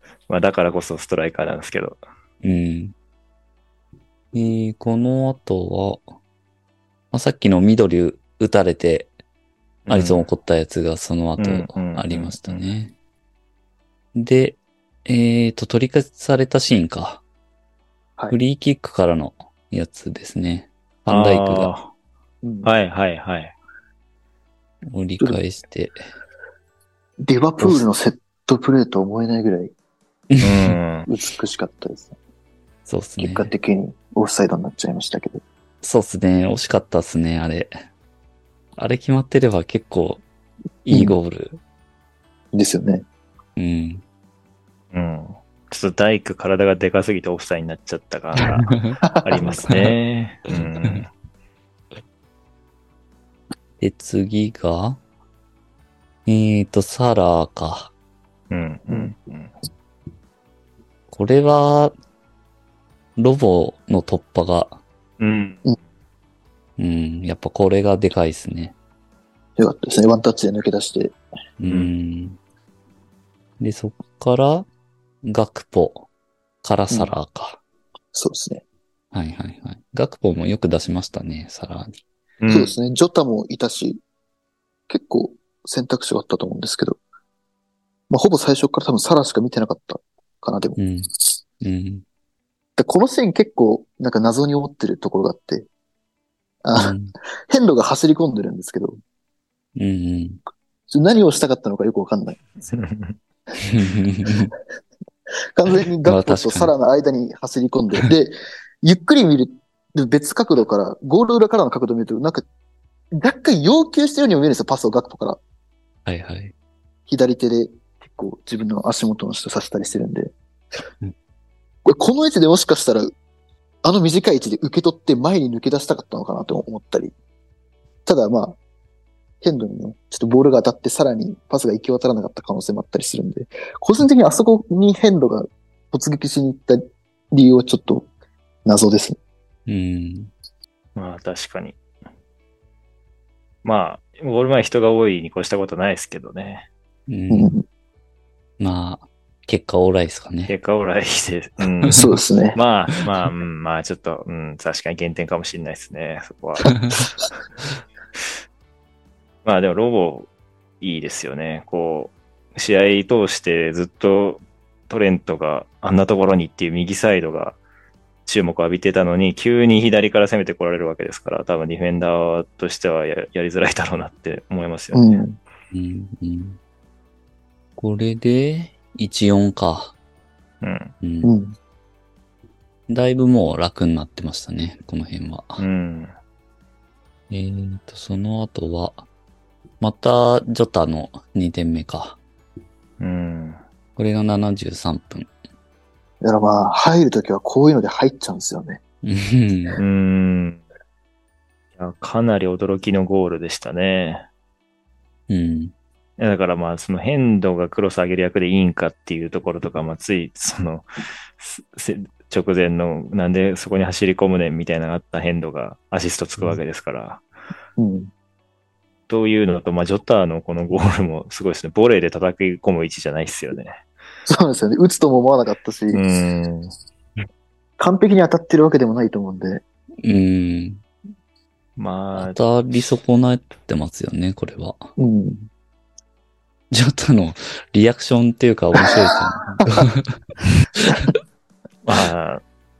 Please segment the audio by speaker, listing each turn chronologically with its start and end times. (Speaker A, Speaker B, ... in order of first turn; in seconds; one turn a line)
Speaker A: 0.3-2.0
Speaker B: 2.4-3.0
Speaker B: 4.3-6.1
Speaker B: 7.1-9.1
Speaker A: 9.9-10.3
Speaker B: 9.9-12.9
Speaker A: 11.4-12.7
Speaker B: 14.2-17.2
Speaker B: 18.3-21.7
Speaker A: 21.1-21.9
Speaker C: 22.4-22.7
Speaker A: 22.6-23.5
Speaker B: 24.9-26.1
Speaker C: 27.2-29.7
Speaker B: 30.3-30.8
Speaker A: 30.4-31.1
Speaker C: 31.1-32.2
Speaker B: 32.9-33.5
Speaker C: 33.2-35.4
Speaker B: 35.8-37.8
Speaker B: 38.8-40.2
Speaker B: 40.8-41.6
Speaker C: 40.9-41.2
Speaker C: 42.5-43.1
Speaker B: 43.6-44.0
Speaker A: 44.9-51.1
Speaker B: 48.4-49.9
Speaker C: 49.1-49.5
Speaker B: 53.8-55.0
Speaker B: 56.3-57.9
Speaker A: 58.5-59.5
Speaker B: 61.1-61.9
Speaker B: 63.2-64.8
Speaker A: 65.2-65.7
Speaker B: 66.8-68.8
Speaker C: 69.6-71.2
Speaker B: 71.6-72.4
Speaker A: 71.6-71.9
Speaker B: 73.6-74.7
Speaker B: 75.2-76.1
Speaker B: 76.6-77.6
Speaker C: 78.1-78.6
Speaker B: 79.1-82.0
Speaker A: 82.4-82.7
Speaker C: 82.5-84.0
Speaker C: 84.9-87.0
Speaker C: 88.1-90.8
Speaker B: 90.8-92.0
Speaker C: 92.8-95.7
Speaker C: 96.6-97.0
Speaker B: 96.8-97.1
Speaker C: 97.5-99.0
Speaker B: 99.8-100.4
Speaker C: 100.9-102.5
Speaker A: 102.7-103.2
Speaker B: 103.6-104.5
Speaker C: 105.5-112.5
Speaker B: 106.0-106.7
Speaker C: 113.1-115.4
Speaker B: 116.1-116.5
Speaker C: 117.1-120.3
Speaker C: 121.8-123.2
Speaker C: 123.8-127.1
Speaker C: 128.1-128.6
Speaker C: 129.4-138.1
Speaker C: 138.7-139.2
Speaker B: 139.7-140.3
Speaker A: 141.0-141.8
Speaker A: 143.6-146.7
Speaker B: 147.1-147.5
Speaker C: 147.3-147.7
Speaker B: 148.6-150.5
Speaker A: 150.5-156.8
Speaker C: 151.9-152.6
Speaker B: 156.8-157.0
Speaker A: 159.4-160.3
Speaker A: 160.8-167.6
Speaker A: 168.3-175.2
Speaker C: 174.9-175.4
Speaker B: 175.7-176.6
Speaker B: 177.8-179.9
Speaker A: 180.6-180.9
Speaker B: 181.0-181.3
Speaker C: 181.2-181.6
Speaker B: 182.9-185.6
Speaker A: 185.6-186.1
Speaker B: 187.3-189.1
Speaker B: 189.8-192.2
Speaker A: 193.0-193.6
Speaker B: 194.0-195.3
Speaker C: 196.2-198.8
Speaker B: 199.0-199.8
Speaker A: 199.8-200.6
Speaker A: 201.8-204.3
Speaker B: 205.3-205.7
Speaker A: 206.2-217.2
Speaker C: 217.8-218.1
Speaker A: 219.1-223.8
Speaker C: 224.3-226.0
Speaker A: 225.9-226.7
Speaker C: 227.8-229.6
Speaker B: 230.0-230.8
Speaker A: 231.8-232.4
Speaker B: 232.2-234.9
Speaker C: 235.0-235.5
Speaker B: 236.7-240.2
Speaker B: 240.8-241.2
Speaker A: 241.8-242.4